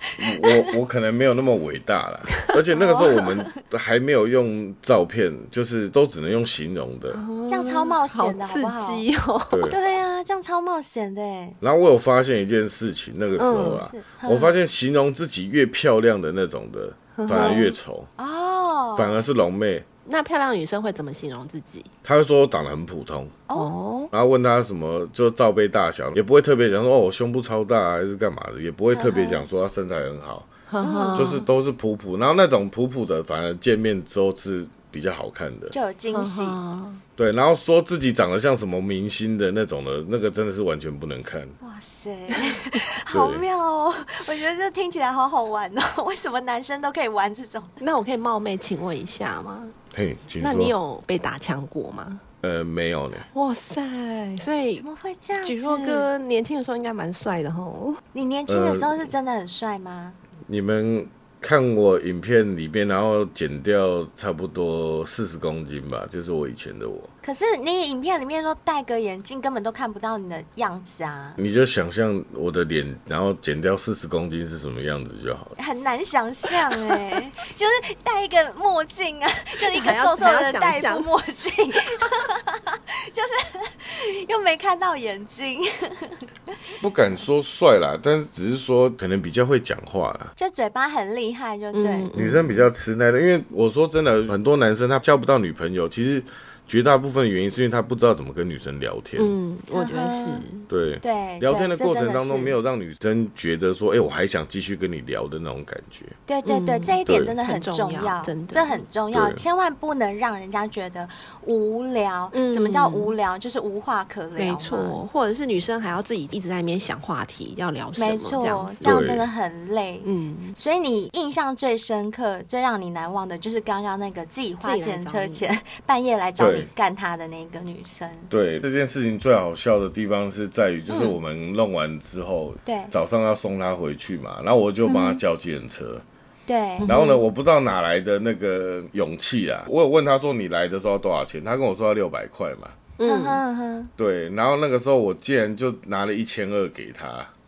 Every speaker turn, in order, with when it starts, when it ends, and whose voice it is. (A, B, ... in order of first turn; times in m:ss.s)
0:00.2-0:07.2 A
0:02.7-0:03.5 B
0:07.1-0:09.7 C
0:07.5-0:09.0 B
0:09.5-0:09.8 A
0:09.7-0:11.6 B
0:11.6-0:18.1 A
0:13.4-0:13.9 C
0:13.5-0:14.5 B
0:17.1-0:17.7 C
0:17.3-0:17.6 B
0:18.2-0:19.2 B
0:19.0-0:19.8 A
0:20.0-0:21.9 C
0:22.0-0:23.4 A
0:23.6-0:24.1 C
0:24.1-0:30.5 A
0:28.9-0:29.4 B
0:30.7-0:31.5 C
0:30.8-0:31.3 B
0:31.1-0:35.7 A
0:35.7-0:36.6 B
0:36.1-0:37.0 C
0:37.2-0:41.6 A
0:41.6-0:47.8 B
0:43.1-0:43.4 A
0:47.8-0:49.7 C
0:49.9-0:50.7 A
0:50.4-0:52.2 C
0:52.4-0:53.2 A
0:53.3-0:54.8 C
0:54.8-0:56.1 B
0:55.4-0:58.0 C
0:58.1-1:00.2 B
0:58.5-0:59.1 A
1:00.5-1:07.1 A
1:07.2-1:11.4 B
1:11.4-1:15.5 A
1:15.6-1:26.3 B
1:19.6-1:21.1 C
1:26.8-1:30.3 A
1:30.4-1:32.1 B
1:31.7-1:32.7 C
1:32.1-1:39.4 A
1:39.2-1:40.7 C
1:39.7-1:40.4 B
1:40.7-1:46.2 A
1:41.0-1:42.6 B
1:46.3-1:54.9 B
1:46.4-1:48.8 C
1:47.0-1:47.3 A
1:49.1-1:49.4 A
1:52.3-1:53.1 C
1:54.4-1:58.9 C
1:58.0-2:08.3 B
1:58.8-1:59.3 A
2:00.0-2:00.6 C
2:04.6-2:05.4 C
2:06.4-2:06.7 A
2:08.3-2:16.0 A
2:10.9-2:11.1 B
2:12.6-2:12.9 B
2:14.8-2:15.2 B
2:16.5-2:16.9 B
2:16.8-2:17.2 C
2:16.8-2:22.8 A
2:23.0-2:23.4 C
2:23.0-2:23.9 B
2:24.0-2:27.3 A